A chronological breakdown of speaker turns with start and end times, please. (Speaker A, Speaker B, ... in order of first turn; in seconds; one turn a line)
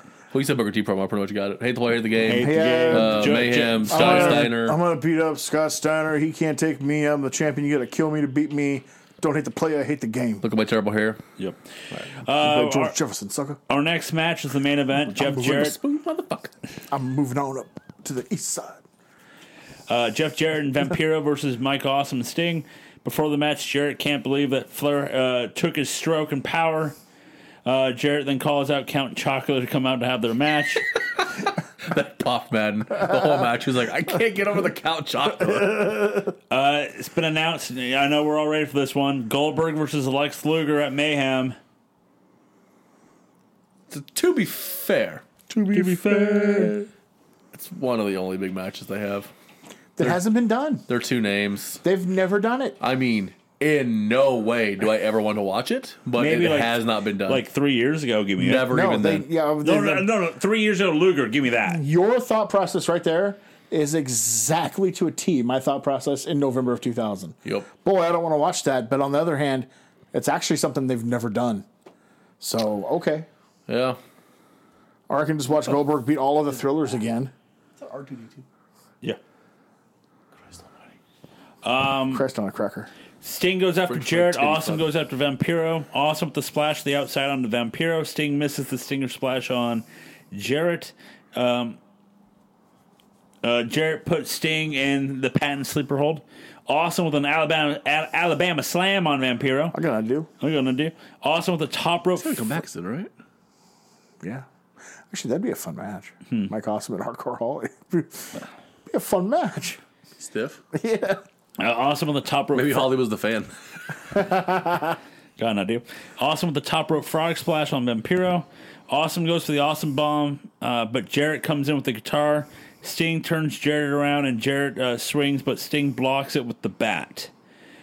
Speaker A: 0.3-4.8
Speaker B: 2.2-4.5
Speaker C: 2.3-10.4
Speaker A: 10.4-11.2
Speaker B: 11.4-12.9
Speaker C: 12.3-13.6
Speaker B: 13.7-15.8
Speaker A: 15.2-16.5
Speaker C: 16.9-18.8
Speaker B: 19.9-27.0
Speaker B: 27.6-30.9
Speaker A: 31.2-36.0
Speaker C: 35.8-36.1
Speaker B: 36.5-41.6
Speaker A: 43.9-46.7
Speaker C: 45.5-46.9
Speaker A: 47.5-49.3
Speaker C: 50.0-50.9
Speaker A: 50.9-51.8
Speaker C: 51.8-52.8
Speaker A: 52.8-57.4
Speaker B: 56.2-58.7
Speaker A: 58.4-59.3
Speaker C: 58.6-60.1
Speaker B: 59.6-61.8
Speaker C: 61.7-71.7
Speaker C: 72.4-73.3
Speaker A: 73.7-74.0
Speaker C: 75.1-77.3
Speaker A: 77.8-78.5
Speaker A: 80.5-80.7
Speaker B: 81.6-82.2
Speaker C: 82.1-82.9
Speaker B: 83.2-91.8
Speaker A: 83.9-84.9
Speaker B: 93.4-99.8
Speaker C: 99.7-100.3
Speaker B: 100.4-102.6
Speaker A: 102.2-103.1
Speaker C: 105.1-109.8
Speaker A: 110.2-110.6
Speaker C: 110.7-111.2
Speaker B: 111.6-112.9
Speaker A: 112.5-113.5
Speaker C: 114.1-115.0
Speaker B: 115.4-127.3